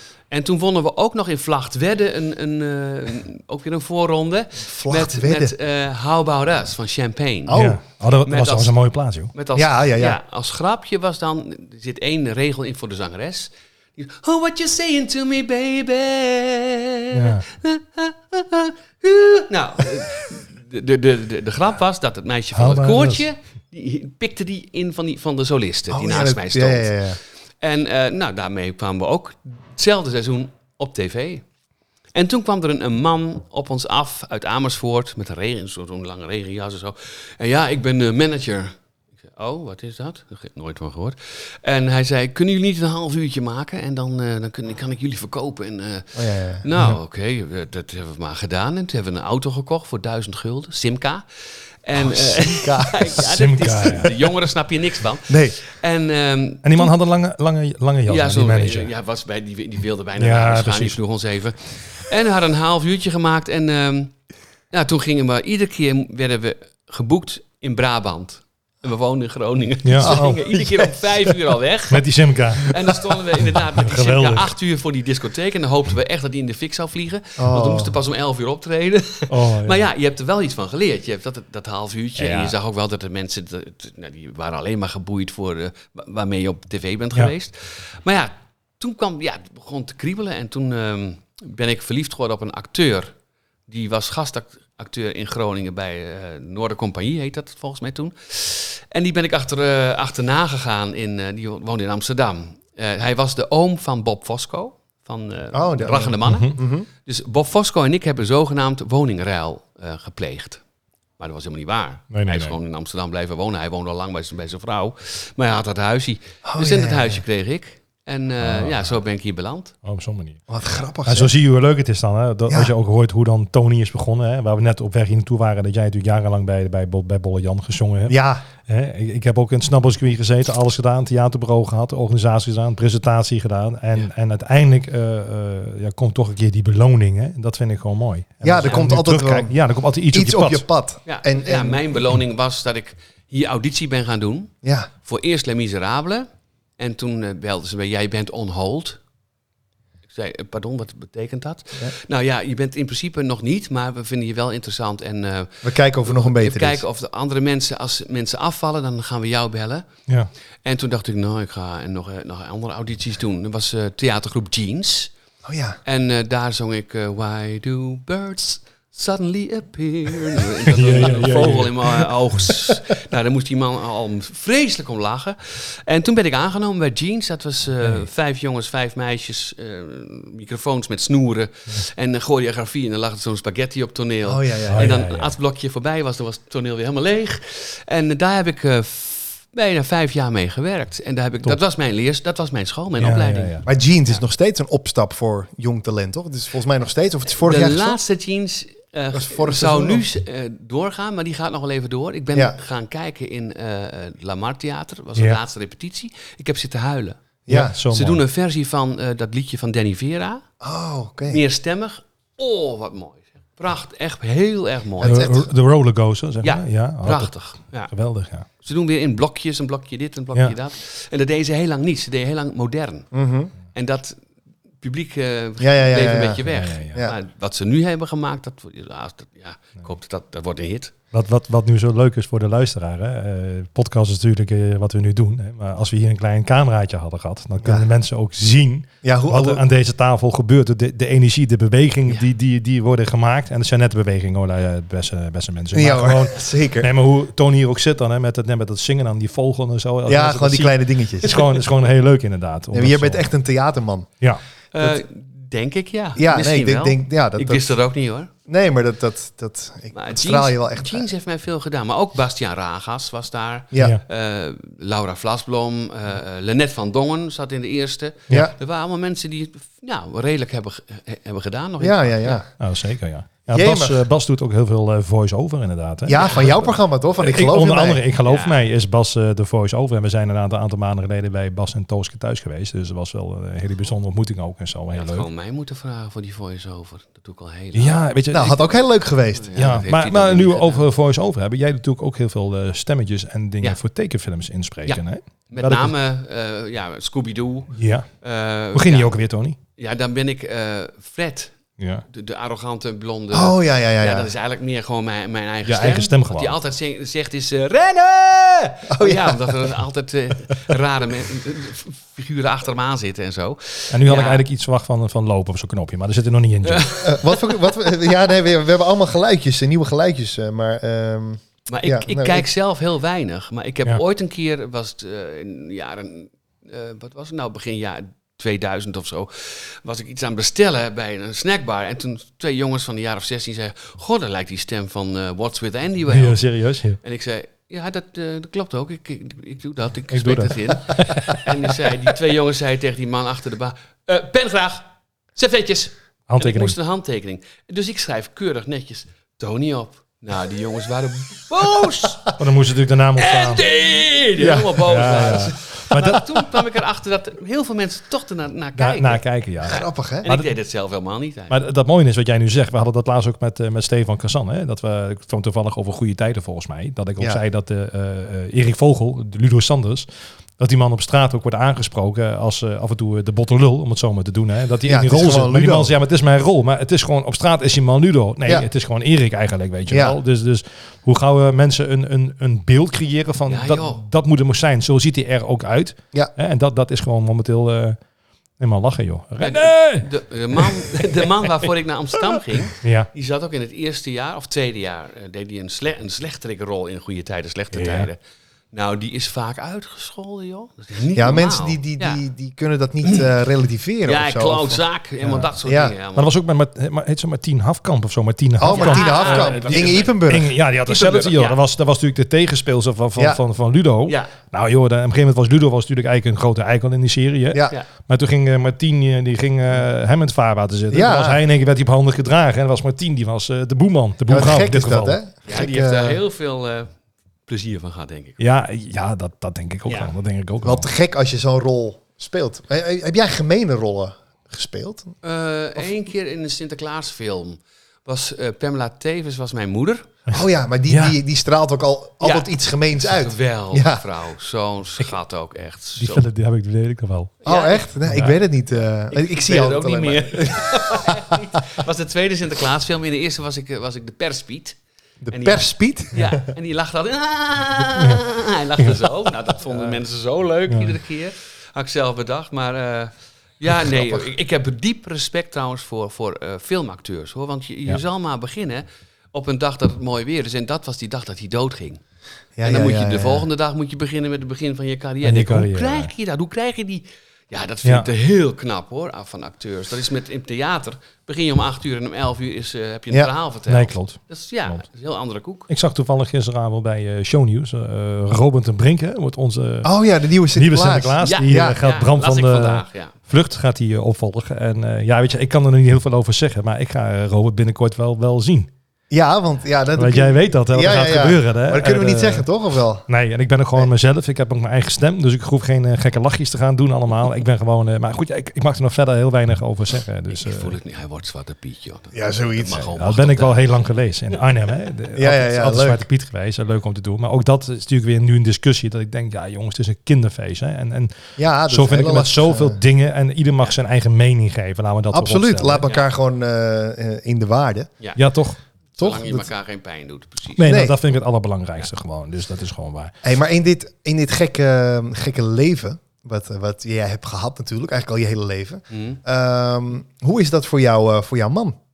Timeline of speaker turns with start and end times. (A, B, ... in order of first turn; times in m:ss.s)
0:00.3-0:07.7 A
0:04.6-0:05.5 B
0:07.5-0:07.8 B
0:07.5-0:09.3 C
0:08.2-0:08.7 A
0:09.3-0:31.5 A
0:09.6-0:10.2 B
0:17.1-0:17.4 C
0:22.5-0:23.2 C
0:25.9-0:27.2 B
0:32.1-0:56.9 A
0:46.2-0:46.6 B
0:52.1-0:53.2 B
0:53.2-0:54.2 C
0:55.3-0:55.6 B
0:56.6-0:58.9 C
0:58.1-1:04.2 A
1:00.2-1:01.0 C
1:04.7-1:33.1 A
1:09.8-1:10.4 C
1:10.0-1:11.0 B
1:11.9-1:14.5 C
1:17.4-1:18.0 B
1:19.3-1:19.9 C
1:22.2-1:22.5 C
1:33.7-1:50.6 A
1:45.5-1:46.9 B
1:46.2-1:46.5 C
1:51.2-1:59.8 A
1:52.1-1:52.6 C
1:56.4-1:57.2 B
1:58.4-1:59.0 C
1:59.8-2:00.4 C
2:00.5-2:01.3 B
2:01.1-2:20.6 C
2:02.5-2:02.7 B
2:08.1-2:08.4 B
2:18.4-2:19.5 B
2:20.1-2:21.8 B
2:21.1-2:24.5 A
2:24.6-2:24.9 B
2:25.0-2:26.3 A
2:26.8-2:29.0 A
2:30.1-2:39.9 A
2:35.6-2:36.8 B
2:40.6-2:45.1 A
2:45.4-2:45.8 B
2:45.8-3:13.6 A
2:50.7-2:52.5 C
3:04.3-3:05.0 B
3:04.7-3:05.3 C
3:13.0-3:13.7 C
3:13.6-3:18.0 B
3:17.4-3:27.2 A
3:19.1-3:20.0 B
3:27.5-3:27.8 B
3:27.5-3:28.2 C
3:27.9-3:30.4 A
3:30.6-3:31.4 B
3:31.3-3:35.3 A
3:35.0-3:35.5 B
3:35.0-3:37.3 C
3:36.4-3:37.9 A
3:37.9-3:38.5 C
3:38.6-3:43.1 A
3:43.1-3:43.5 B
3:43.7-3:44.2 A
3:44.8-3:50.9 A
3:45.6-3:47.2 B
3:46.5-3:47.1 C
3:51.1-4:13.2 C
3:57.6-3:57.9 B
3:59.0-3:59.6 B
4:05.7-4:06.9 B
4:10.1-4:11.4 B
4:12.7-4:14.1 B
4:14.7-4:18.3 A
4:16.2-4:17.7 B
4:18.5-4:21.1 B
4:19.9-4:32.4 A
4:23.7-4:24.0 B
4:31.8-4:32.5 B
4:32.6-4:36.6 C
4:33.5-4:34.0 B
4:36.1-4:38.0 B
4:36.2-4:36.5 A
4:37.2-4:45.3 C
4:38.2-4:38.6 A
4:44.9-4:48.0 A
4:47.8-4:48.6 C
4:48.3-4:49.8 B
4:49.3-4:50.9 A
4:49.6-4:55.9 C
4:54.9-4:59.1 A
4:57.7-4:58.1 C
4:58.7-4:59.6 C
4:59.8-5:01.6 A
5:01.8-5:02.0 C
5:02.1-5:14.4 A
5:03.3-5:04.3 B
5:05.6-5:06.6 C
5:08.9-5:09.6 B
5:13.9-5:17.1 C
5:16.6-5:17.5 A
5:17.0-5:22.5 B
5:21.7-5:36.4 A
5:36.1-5:37.0 C
5:37.0-5:52.3 A
5:40.1-5:41.4 C
5:46.3-5:46.8 C
5:52.4-5:53.7 C
5:53.2-6:01.6 A
5:54.4-5:54.8 B
5:54.8-5:56.3 C
5:58.8-6:00.5 C
5:59.6-6:00.3 B
6:01.5-6:10.1 C
6:10.6-6:28.0 C
6:14.8-6:15.9 B
6:19.9-6:20.2 B
6:23.5-6:24.0 A
6:28.6-6:31.5 C
6:29.4-6:38.2 A
6:32.2-6:33.1 C
6:37.7-6:38.1 C
6:38.7-6:42.2 A
6:41.2-6:44.8 B
6:44.0-6:46.3 A
6:45.2-6:45.5 C
6:45.6-6:45.9 B
6:46.2-7:05.2 C
6:48.6-6:50.6 B
6:48.7-6:50.3 A
6:50.9-6:51.6 A
6:54.1-6:54.3 A
7:00.9-7:01.4 B
7:04.3-7:06.2 B
7:05.5-7:06.9 A
7:07.5-7:08.4 A
7:08.4-7:10.9 C
7:09.9-7:10.1 A
7:10.6-7:15.1 B
7:15.2-7:20.1 A
7:20.3-7:24.0 B
7:20.9-7:21.2 C
7:22.2-7:26.3 A
7:26.0-7:27.4 C
7:27.4-7:27.9 A
7:27.4-7:31.4 B
7:28.1-7:28.4 C
7:29.1-7:34.8 A
7:35.2-7:36.5 B
7:35.3-7:52.0 A
7:38.0-7:38.2 C
7:39.7-7:40.0 C
7:40.7-7:41.0 C
7:52.6-7:53.5 B
7:52.6-8:05.7 A
7:55.2-7:56.1 C
8:03.7-8:04.8 C
8:05.7-8:09.9 C
8:09.8-8:11.8 B
8:10.5-8:18.7 C
8:11.2-8:13.2 A
8:19.1-8:23.1 B
8:20.0-8:22.5 C
8:23.1-8:30.8 C
8:30.3-8:33.8 A
8:32.1-8:32.9 B
8:33.0-8:45.8 C
8:35.2-8:36.0 B
8:41.4-8:42.8 B
8:45.1-8:48.0 B
8:48.2-8:48.6 C
8:49.0-8:50.8 A
8:49.0-8:49.5 B
8:50.6-8:53.1 C
8:50.6-8:51.0 B
8:53.2-9:01.8 B
8:58.9-8:59.2 A